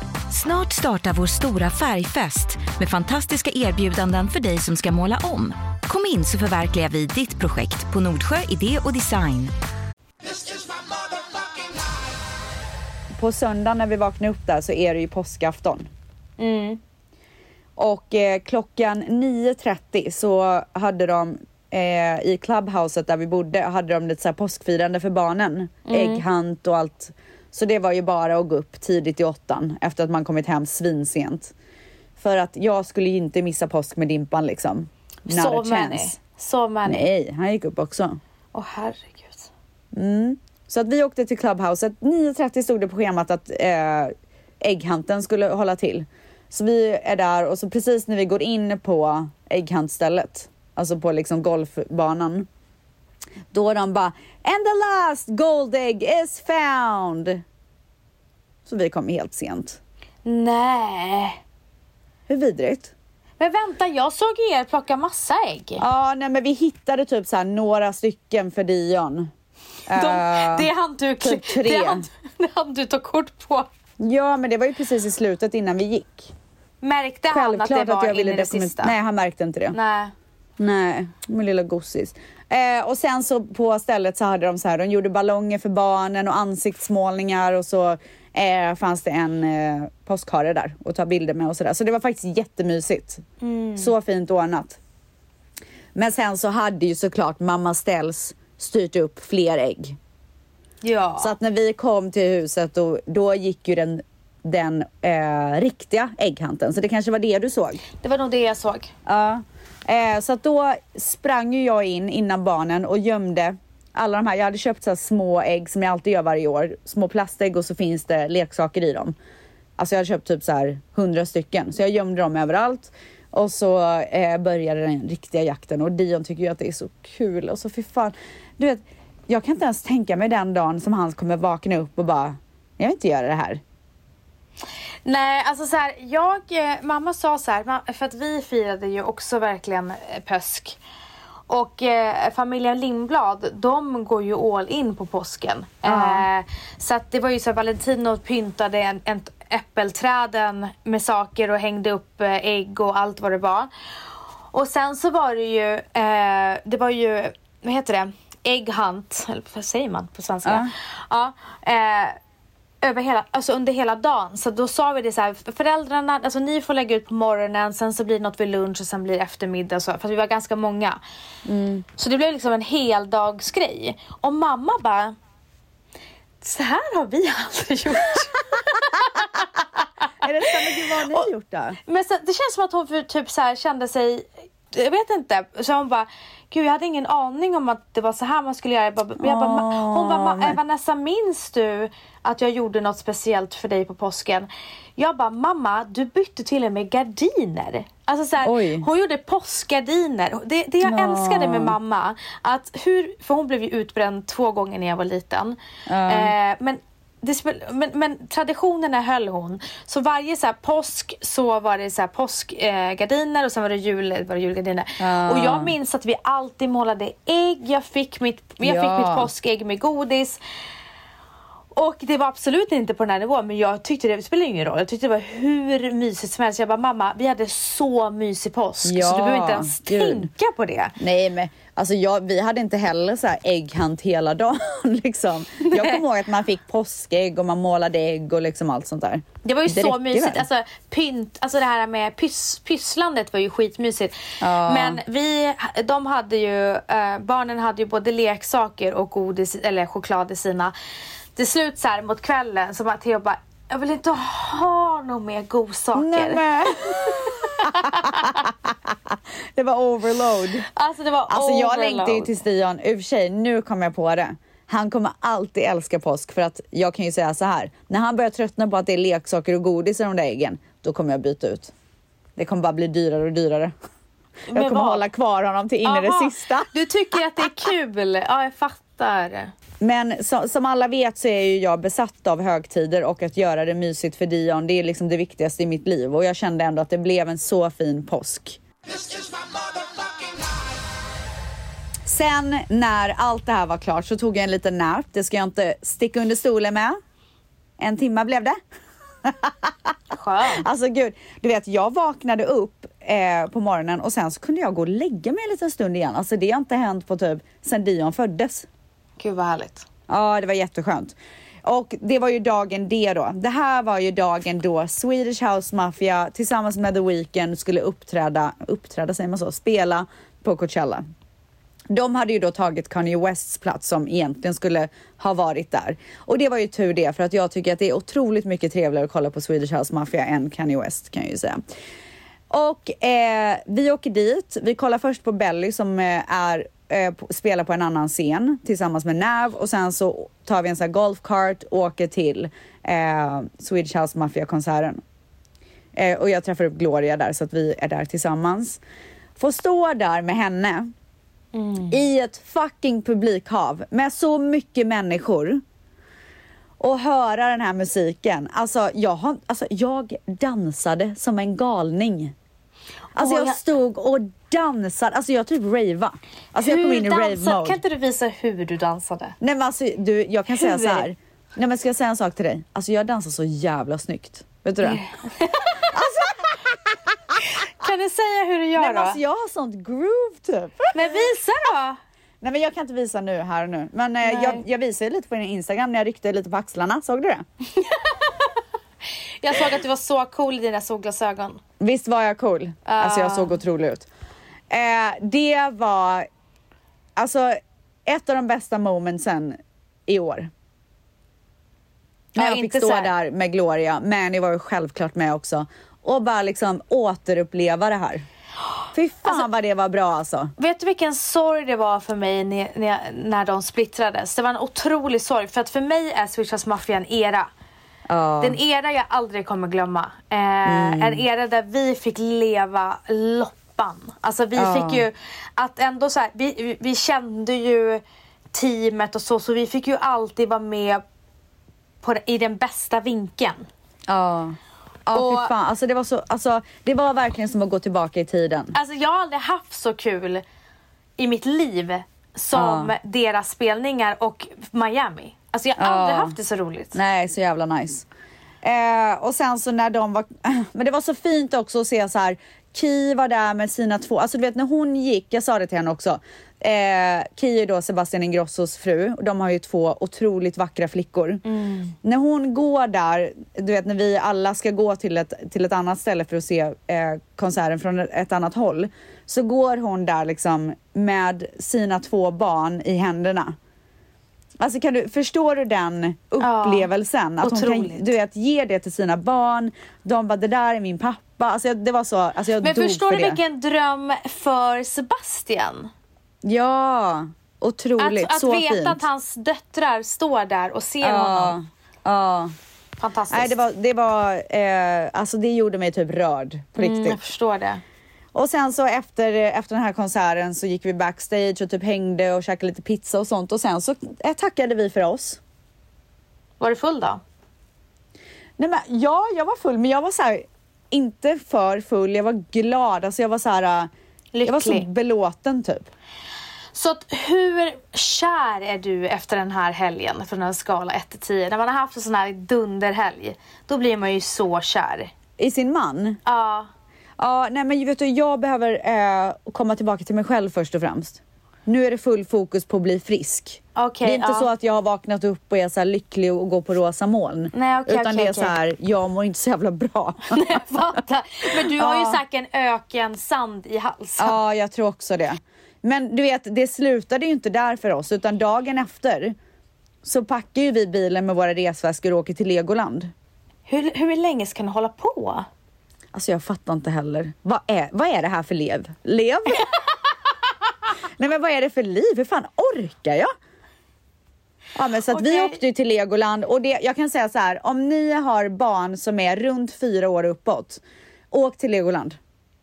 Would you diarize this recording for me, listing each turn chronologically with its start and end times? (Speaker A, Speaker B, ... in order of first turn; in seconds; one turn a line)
Speaker A: 0.3-9.5
Speaker B: 13.2-15.9
Speaker C: 16.4-16.8
Speaker B: 17.8-31.5
Speaker C: 25.9-26.2
Speaker B: 32.2-36.2
Speaker C: 35.3-37.0
Speaker B: 36.9-38.2
Speaker C: 38.5-39.5
Speaker B: 39.9-52.5
Speaker B: 53.5-57.4
Speaker B: 58.6-59.8
Speaker C: 60.2-61.4
Speaker B: 62.3-62.9
Speaker C: 63.4-65.8
Speaker B: 65.8-69.3
Speaker B: 69.9-70.7
Speaker C: 69.9-73.7
Speaker B: 71.2-72.0
Speaker B: 74.0-76.3
Speaker C: 76.8-78.9
Speaker B: 77.3-79.8
Speaker C: 79.7-80.1
Speaker B: 80.6-93.2
Speaker C: 93.4-93.9
Speaker B: 93.8-94.8
Speaker B: 95.9-100.0
Speaker C: 100.8-101.3
Speaker B: 101.2-107.8
Speaker C: 108.0-108.9
Speaker B: 109.0-119.1
Speaker B: 119.8-133.6
Speaker C: 135.0-140.8
Speaker C: 141.5-153.7
Speaker B: 145.8-146.2
Speaker C: 154.5-162.2
Speaker B: 160.4-160.7
Speaker C: 162.8-171.0
Speaker B: 171.4-171.8
Speaker C: 172.0-175.1
Speaker C: 176.4-179.6
Speaker B: 180.2-181.8
Speaker C: 180.2-181.3
Speaker C: 181.8-220.4
Speaker B: 189.2-190.6
Speaker B: 198.4-198.8
Speaker B: 200.8-201.7
Speaker B: 205.9-206.3
Speaker B: 215.0-215.7
Speaker B: 218.6-219.3
Speaker C: 221.7-230.9
Speaker B: 228.8-230.3
Speaker B: 231.0-240.4
Speaker C: 235.6-236.0
Speaker C: 239.4-250.7
Speaker B: 244.4-245.0
Speaker C: 251.3-258.5
Speaker B: 255.9-260.6
Speaker C: 260.6-262.4
Speaker B: 261.3-271.7
Speaker B: 272.4-273.7
Speaker C: 274.5-275.0
Speaker B: 274.5-276.7
Speaker C: 275.8-279.5
Speaker B: 279.8-288.6
Speaker B: 292.0-297.0
Speaker B: 297.8-298.6
Speaker B: 299.2-299.9
Speaker C: 300.1-300.6
Speaker B: 300.5-308.7
Speaker C: 309.2-309.9
Speaker B: 310.1-321.0
Speaker B: 321.9-331.6
Speaker B: 332.5-345.0
Speaker B: 345.9-348.8
Speaker B: 349.4-350.9
Speaker C: 351.5-351.9
Speaker B: 351.9-355.6
Speaker B: 356.8-362.3
Speaker C: 363.1-363.6
Speaker B: 363.1-367.8
Speaker C: 366.6-369.4
Speaker B: 369.4-375.0
Speaker C: 370.5-371.1
Speaker C: 374.8-375.8
Speaker B: 375.8-376.6
Speaker C: 377.5-379.2
Speaker B: 378.8-381.3
Speaker C: 380.9-382.0
Speaker B: 382.4-387.4
Speaker C: 384.2-384.6
Speaker C: 387.8-388.5
Speaker C: 389.4-391.6
Speaker B: 391.8-394.1
Speaker C: 392.9-393.6
Speaker B: 394.7-396.3
Speaker B: 397.1-400.5
Speaker B: 402.3-408.2
Speaker C: 402.4-403.1
Speaker B: 408.9-410.5
Speaker C: 410.6-417.5
Speaker B: 418.1-418.6
Speaker C: 418.4-428.0
Speaker B: 420.6-421.2
Speaker B: 424.5-425.1
Speaker C: 428.5-431.0
Speaker C: 432.0-433.7
Speaker B: 434.1-438.7
Speaker C: 435.1-435.5
Speaker C: 438.7-440.4
Speaker C: 441.2-446.9
Speaker B: 442.5-442.9
Speaker B: 445.8-446.3
Speaker B: 446.9-448.1
Speaker B: 448.6-461.4
Speaker C: 461.4-461.9
Speaker B: 462.0-473.6
Speaker B: 474.6-483.4
Speaker C: 476.4-478.1
Speaker C: 482.6-485.9
Speaker B: 486.4-489.0
Speaker C: 488.0-491.6
Speaker B: 491.0-492.5
Speaker C: 493.0-493.5
Speaker B: 493.3-497.2
Speaker C: 496.8-497.8
Speaker B: 498.3-505.4
Speaker C: 506.6-507.2
Speaker B: 508.6-513.9
Speaker C: 514.3-514.9
Speaker B: 514.5-515.9
Speaker C: 516.7-525.1
Speaker B: 525.4-526.2
Speaker C: 526.2-526.7
Speaker B: 527.2-540.4
Speaker C: 533.7-534.5
Speaker C: 537.5-538.5
Speaker C: 540.3-544.4
Speaker B: 541.7-542.2
Speaker B: 544.2-549.3
Speaker B: 550.0-553.1
Speaker C: 553.7-555.5
Speaker B: 556.1-559.7
Speaker B: 561.2-563.3
Speaker B: 564.7-572.2
Speaker C: 565.1-565.5